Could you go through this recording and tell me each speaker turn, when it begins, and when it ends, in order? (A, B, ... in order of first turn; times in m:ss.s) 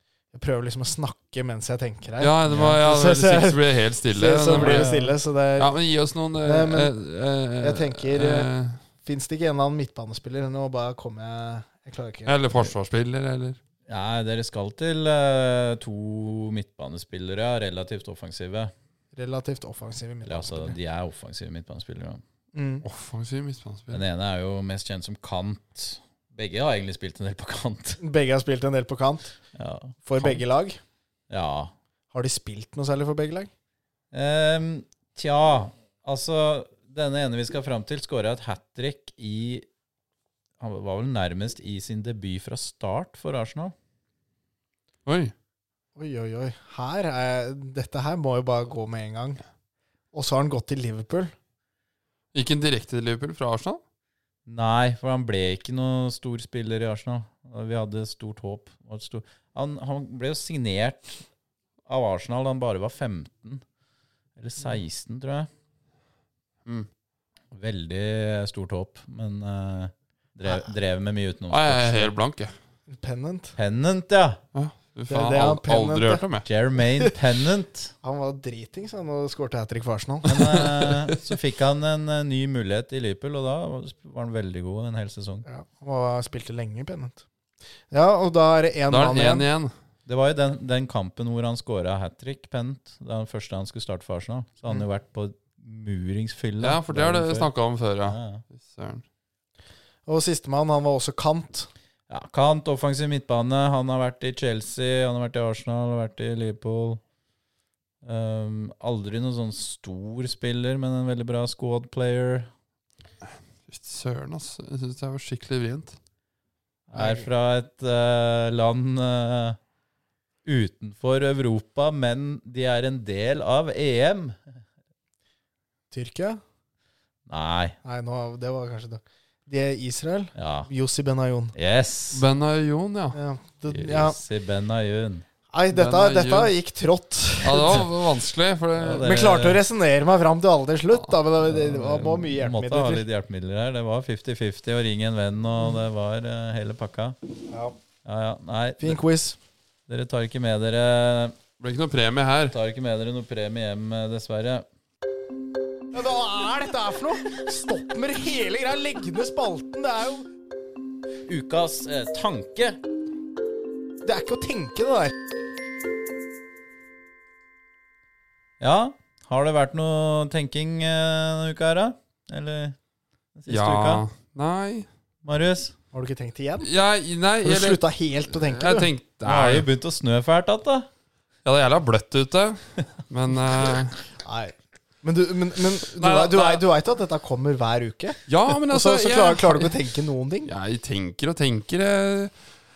0:00.3-0:05.7 A
0:02.2-0:04.9 B
0:02.5-0:02.8 C
0:04.5-0:05.1 C
0:05.6-0:08.8 B
0:06.4-0:06.9 A
0:07.6-0:08.5 A
0:09.0-0:12.4 A
0:12.2-0:13.6 B
0:13.9-0:18.7 C
0:19.1-0:20.8 A
0:20.2-0:22.2 C
0:22.5-0:22.8 A
0:22.8-0:24.0 B
0:23.9-0:28.0 C
0:28.0-0:29.4 A
0:29.5-0:30.4 C
0:30.0-0:30.8 A
0:31.3-0:31.7 C
0:32.1-0:33.5 A
0:34.1-0:39.6 C
0:40.6-0:43.7 C
0:45.0-0:45.3 B
0:46.0-0:49.4 A
0:50.1-0:51.3 A
0:52.3-0:53.8 B
0:54.5-1:01.2 C
1:01.9-1:03.6 C
1:04.4-1:05.5 C
1:07.5-1:12.1 C
1:11.5-1:12.5 B
1:12.9-1:13.6 A
1:13.6-1:14.4 C
1:14.5-1:16.4 B
1:15.1-1:16.2 A
1:16.4-1:17.9 C
1:18.0-1:20.4 A
1:20.2-1:25.4 C
1:20.3-1:21.1 B
1:25.4-1:27.2 A
1:27.9-1:29.4 A
1:28.9-1:29.7 B
1:30.0-1:37.5 C
1:36.6-1:39.0 B
1:38.0-1:38.4 C
1:40.0-1:41.7 A
1:42.1-1:47.0 C
1:48.0-1:52.5 C
1:53.7-1:56.0 B
1:56.9-1:59.6 C
1:56.9-1:57.3 A
2:00.4-2:04.6 C
2:05.9-2:06.4 A
2:07.3-2:07.8 C
2:07.8-2:11.5 A
2:10.4-2:10.7 C
2:11.5-2:12.2 C
2:12.1-2:13.2 B
2:13.1-2:14.2 A
2:13.7-2:15.2 C
2:15.5-2:17.8 A
2:15.7-2:16.5 B
2:17.4-2:19.1 B
2:18.8-2:19.6 C
2:19.0-2:23.0 A
2:21.4-2:27.2 C
2:28.0-2:29.0 C
2:28.8-2:29.4 A
2:29.9-2:31.4 C
2:31.6-2:32.5 B
2:32.5-2:34.6 C
2:35.9-2:40.3 A
2:41.3-2:42.8 C
2:44.0-2:45.1 A
2:48.6-2:52.8 C
2:53.4-2:54.0 C
2:53.5-2:54.9 B
2:55.2-2:55.7 C
2:55.9-2:56.7 A
2:56.6-2:59.6 B
2:57.4-2:58.9 A
2:59.2-3:00.9 C
3:01.4-3:04.0 B
3:04.2-3:10.5 A
3:06.0-3:06.6 B
3:08.3-3:09.7 B
3:10.4-3:12.3 B